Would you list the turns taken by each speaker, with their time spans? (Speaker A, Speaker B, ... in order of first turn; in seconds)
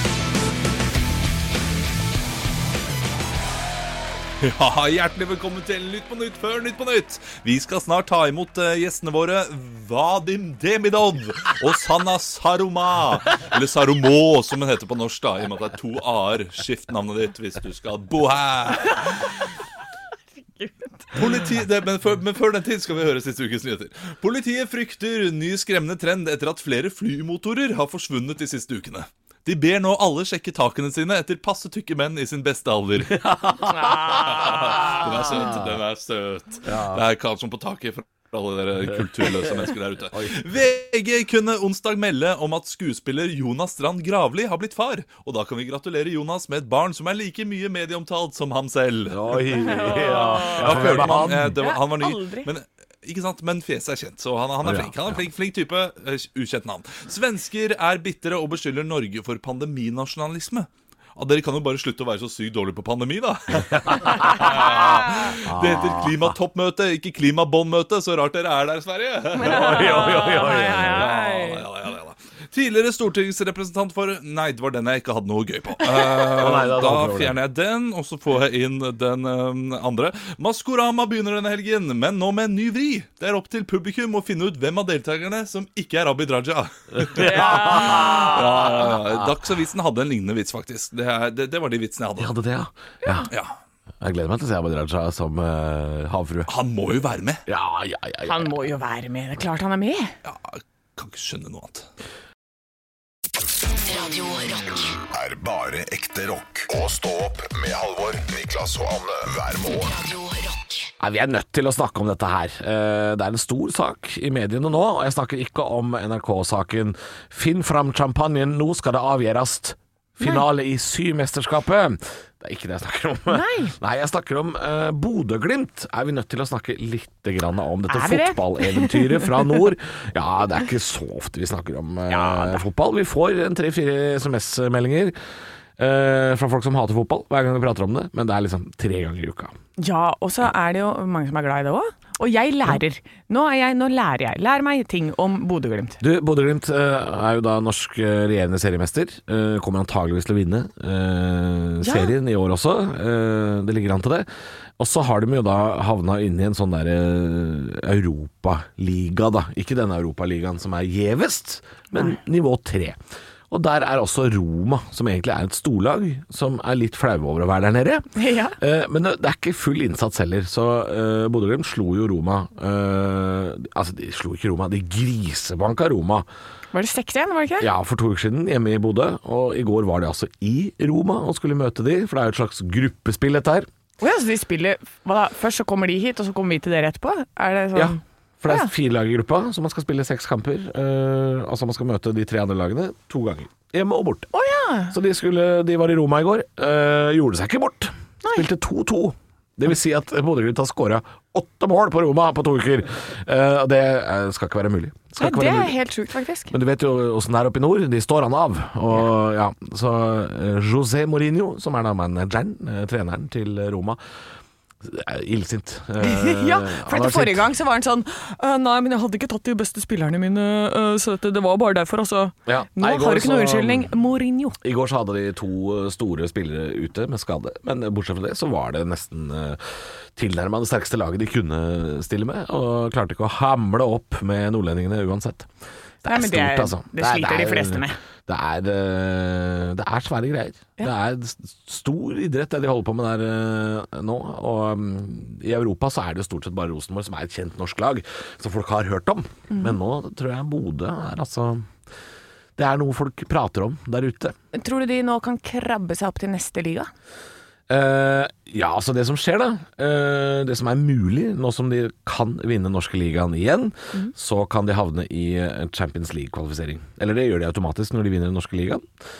Speaker A: 4.4-19.4, 21.1-33.4, 34.0-92.3, 96.5-97.4, 100.2-101.9
Speaker B: 20.6-21.1, 33.7-34.8, 49.6-52.5, 69.4-71.6, 87.2-88.8, 98.2-100.1, 123.3-123.8, 127.9-129.5, 132.1-132.6, 139.8-146.0, 151.8-152.1, 168.2-168.6, 176.7-177.7, 184.0-188.7, 194.3-194.9, 205.2-206.5, 216.0-224.6, 236.1-238.0, 249.5-249.8, 254.5-256.9
Speaker C: 33.1-34.1, 35.3-35.6, 36.6-37.0, 39.4-40.4, 49.1-51.6, 54.6-55.2, 63.7-66.3, 69.4-71.1, 76.3-77.4, 87.0-88.4, 92.2-93.3, 94.0-96.5, 97.5-98.5, 111.0-135.2, 135.8-139.6, 146.0-154.3, 154.8-163.0, 163.5-176.3, 177.6-183.7, 187.8-194.3, 194.9-205.8, 206.5-214.0, 214.8-217.5, 222.5-223.9, 224.6-235.5, 236.0-251.7, 252.6-254.4, 257.7-268.9
Speaker D: 103.7-105.0, 109.7-110.9
Speaker E: 105.1-110.0